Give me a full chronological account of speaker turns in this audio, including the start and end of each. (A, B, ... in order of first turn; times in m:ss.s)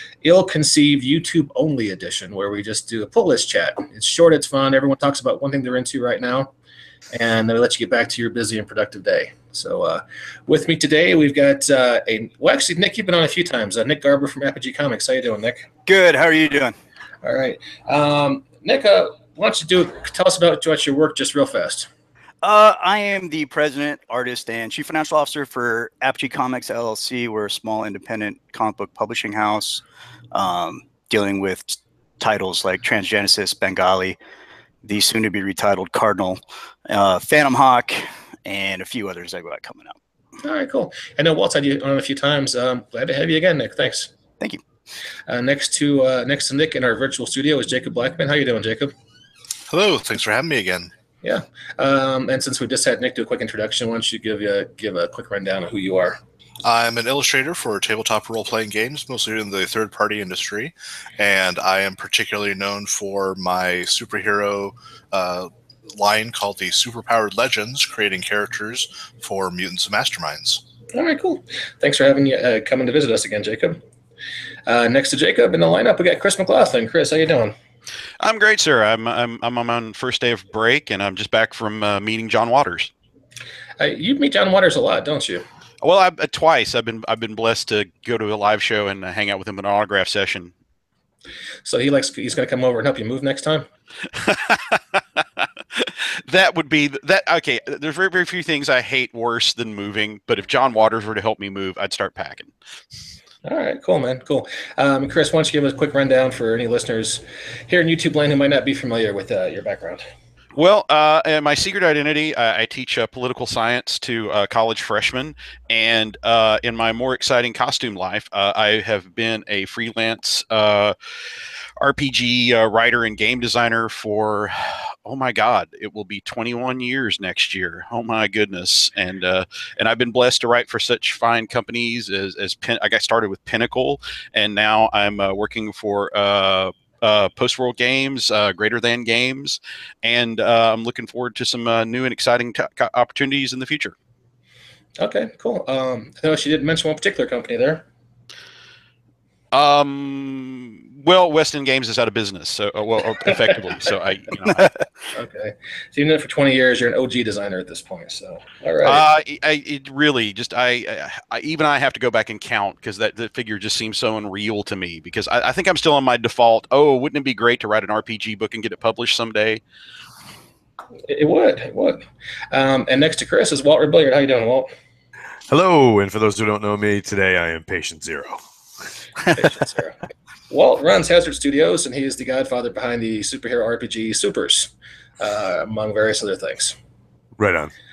0:00.2-0:06.5 A
0:07.1-0:15.7 A
0:15.9-0:16.7 B
0:17.2-0:21.9 A
0:22.4-0:29.8 B
0:30.3-0:34.2 B
0:34.8-0:40.0 B
0:40.4-0:44.1 A
0:45.3-0:48.9 A
0:49.7-0:50.9 C
0:51.2-0:56.2 A
0:56.6-1:10.6 C
1:10.9-1:13.8 A
1:14.7-1:17.5 A
1:18.2-1:22.9 D
1:23.8-1:25.4 A
1:25.8-1:30.5 D
1:31.6-1:33.7 A
1:34.1-1:42.5 D
1:43.4-1:50.0 A
1:50.6-2:00.9 D
2:01.8-2:23.9 D
2:25.0-2:27.9 A
2:29.5-2:34.7 D
2:35.1-2:39.0 A
2:38.8-2:49.6 D
2:51.1-2:54.7 A
2:55.5-2:58.4 E
2:59.3-3:00.0 A
3:00.5-3:06.8 A
3:07.4-3:07.7 E